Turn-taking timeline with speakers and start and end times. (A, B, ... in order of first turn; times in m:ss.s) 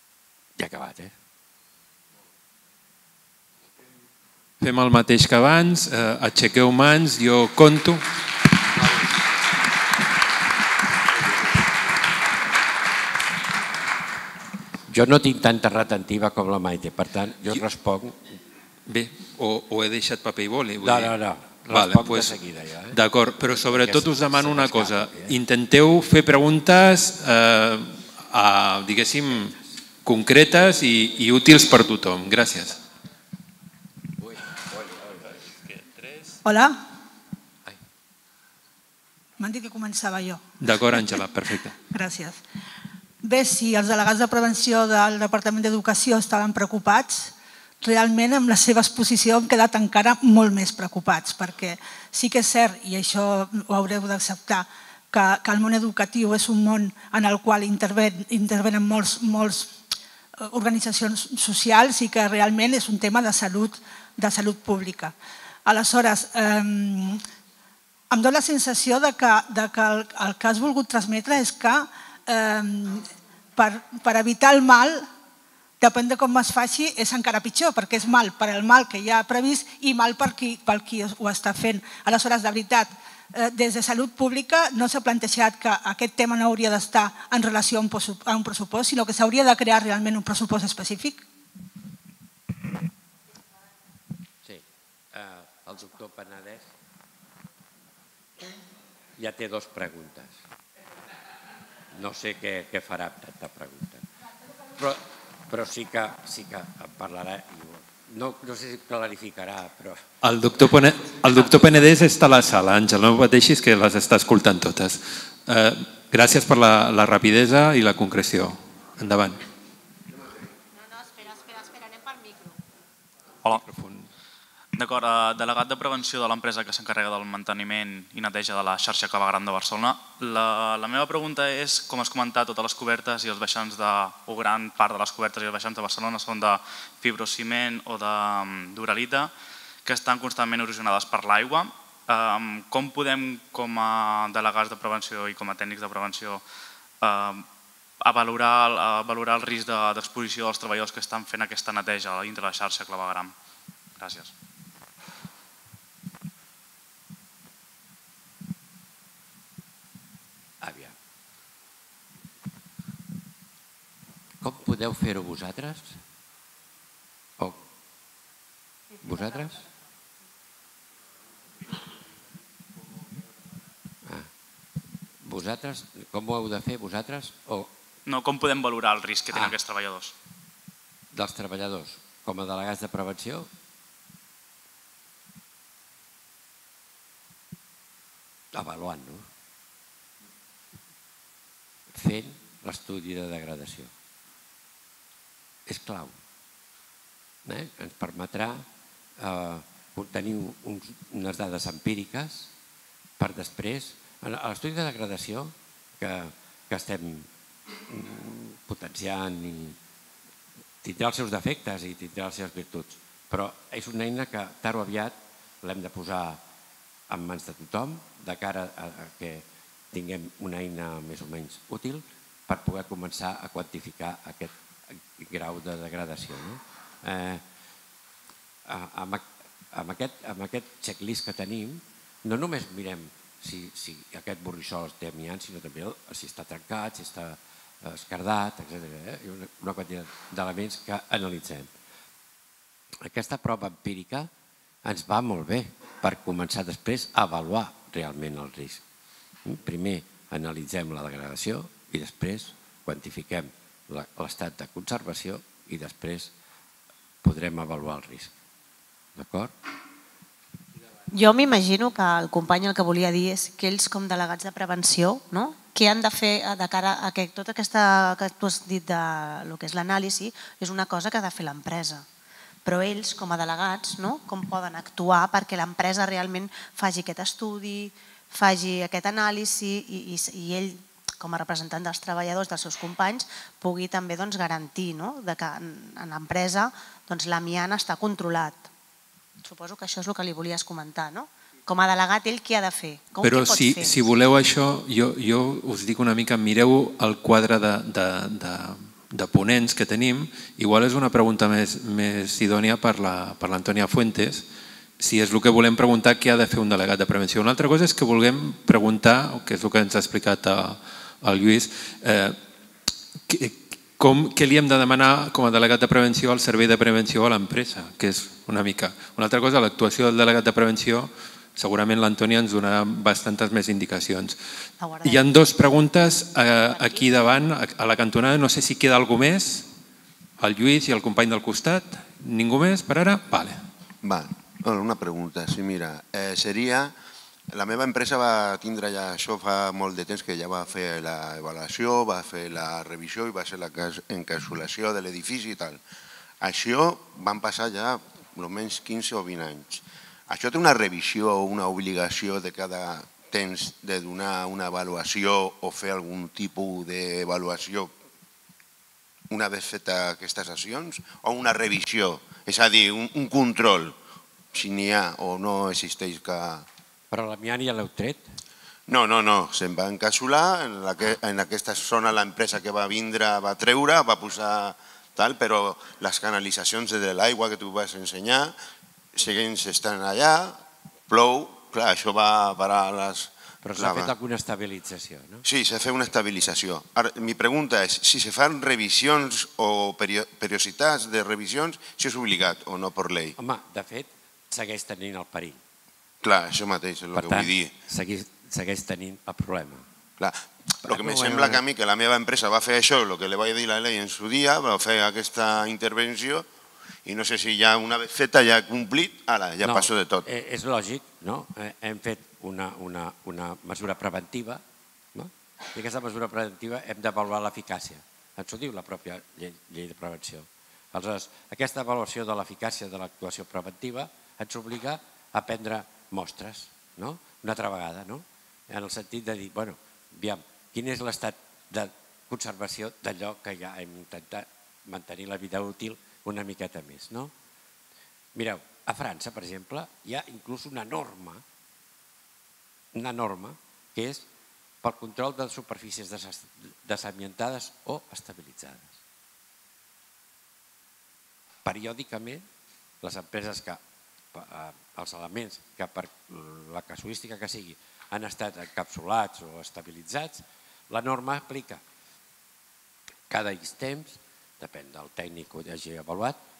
0:00.6-0:01.1 A
0:04.6-0:08.1 B
0:14.9-0:18.2 A
0:18.9-0:21.2 B
0:20.8-0:25.4 A
0:21.7-0:22.4 B
0:22.9-0:32.8 B
0:34.2-0:35.3 A
0:35.7-0:36.4 B
0:36.4-0:36.8 C
0:39.4-0:41.1 C
0:40.6-0:41.8 B
0:41.8-0:42.4 C
0:43.2-0:59.8 C
1:00.4-1:05.1 C
1:05.6-1:07.2 C
1:08.1-1:15.1 C
1:15.8-1:31.2 C
1:34.4-1:36.7 A
1:39.2-1:40.4 A
1:41.9-1:44.0 A
1:44.8-1:50.0 A
1:50.2-1:59.4 B
2:03.4-2:04.1 B
2:04.7-2:19.3 D
2:19.8-2:26.4 D
2:27.0-2:27.5 D
2:28.0-2:33.3 D
2:34.0-2:34.3 D
2:40.6-2:40.9 A
2:44.4-2:46.0 A
2:49.0-2:49.6 A
2:55.2-2:57.7 A
2:58.0-3:00.1 D
3:01.1-3:03.5 A
3:08.5-3:09.2 A
3:11.9-3:13.9 A
3:15.6-3:16.1 A
3:17.4-3:18.6 A
3:19.2-3:22.5 A
3:23.2-3:27.3 A
3:27.9-3:29.8 A
3:30.8-3:36.4 A
3:37.1-3:47.4 A
3:48.7-4:01.7 A
4:03.0-4:04.3 A
4:04.8-4:08.8 A
4:09.4-4:16.3 A
4:17.2-4:18.3 A
4:19.2-4:19.5 A
4:21.1-4:32.0 E
4:32.6-4:48.6 E
4:49.4-4:54.0 E
4:53.2-5:04.4 B
5:05.0-5:12.4 B
5:13.3-5:24.4 B
5:24.8-5:25.4 E
5:25.0-5:29.7 B
5:26.6-5:27.1 E
5:30.4-5:33.6 B
5:34.0-5:36.9 F
5:37.5-5:45.8 F
5:46.4-5:57.9 F
5:59.3-6:04.0 F
6:04.5-6:06.6 F
6:07.1-6:08.4 A
6:08.9-6:18.5 F
6:19.1-6:24.1 F
6:23.6-6:25.4 A
6:25.4-6:33.4 F
6:33.4-6:35.6 A
6:36.2-6:37.7 F
6:37.1-6:39.8 A
6:40.2-6:46.5 F
6:40.8-6:41.6 A
6:47.0-6:50.2 F
6:49.6-6:54.6 A
6:55.1-7:17.3 A
7:18.3-7:21.4 A
7:22.9-7:24.3 A
7:24.8-7:29.0 A
7:31.6-7:32.4 A
7:33.0-7:33.8 A
7:34.3-7:41.8 A
7:43.3-7:46.4 A